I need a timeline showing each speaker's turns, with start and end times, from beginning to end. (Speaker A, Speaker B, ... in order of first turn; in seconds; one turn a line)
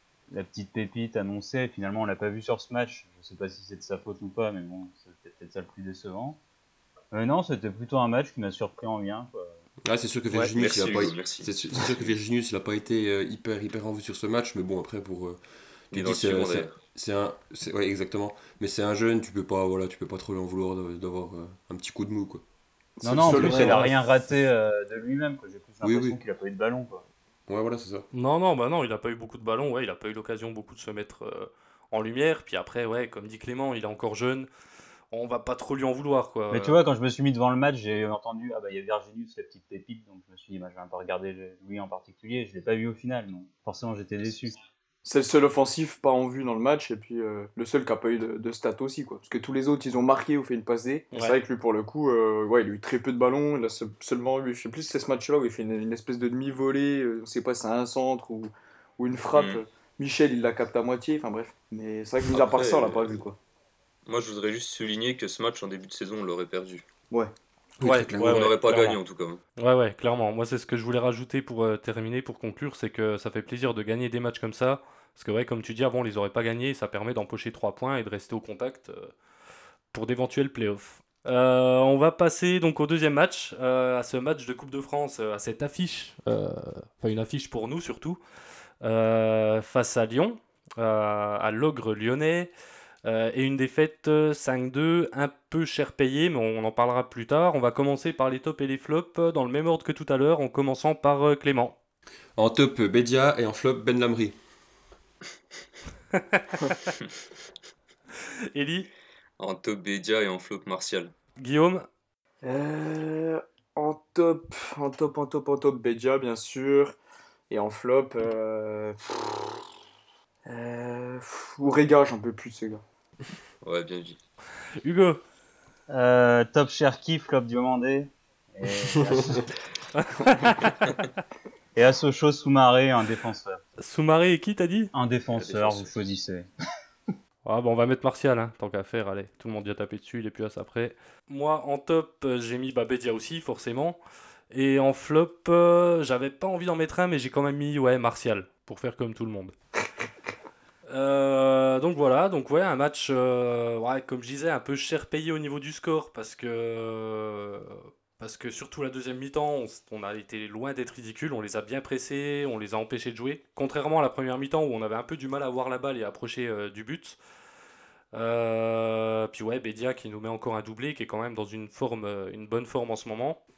Speaker A: 0.3-6.4
Speaker A: 7.1-9.6
Speaker B: 9.8-15.4
Speaker C: 10.5-12.1
Speaker B: 15.9-22.4
Speaker C: 15.9-16.8
Speaker D: 23.0-23.9
Speaker A: 23.0-27.1
Speaker B: 23.1-23.9
Speaker B: 25.8-26.2
Speaker B: 27.5-28.1
Speaker E: 28.1-34.5
Speaker E: 35.1-36.8
Speaker A: 36.5-44.6
Speaker D: 45.0-63.4
Speaker E: 51.1-51.4
Speaker C: 59.3-59.6
Speaker C: 62.3-63.0
Speaker C: 64.1-66.8
Speaker B: 67.8-68.5
Speaker E: 67.8-69.0
Speaker C: 68.2-69.4
Speaker E: 69.6-79.1
Speaker E: 79.9-88.2
Speaker E: 88.8-92.5
Speaker E: 93.0-101.8
Speaker B: 102.4-104.4
Speaker E: 106.1-106.9
Speaker E: 108.5-108.9
Speaker C: 109.4-111.1
Speaker E: 111.4-111.9
Speaker D: 112.4-117.0
Speaker D: 117.5-119.5
Speaker D: 120.5-122.8
Speaker C: 123.6-124.2
Speaker E: 124.8-125.2
Speaker A: 125.9-129.5
Speaker B: 129.1-129.4
Speaker E: 129.9-130.9
Speaker A: 131.8-133.6
Speaker E: 133.8-134.9
Speaker A: 134.9-136.5
Speaker C: 135.3-136.2
Speaker E: 137.4-144.0
Speaker E: 144.5-149.6
Speaker E: 150.9-167.2
Speaker E: 168.1-173.4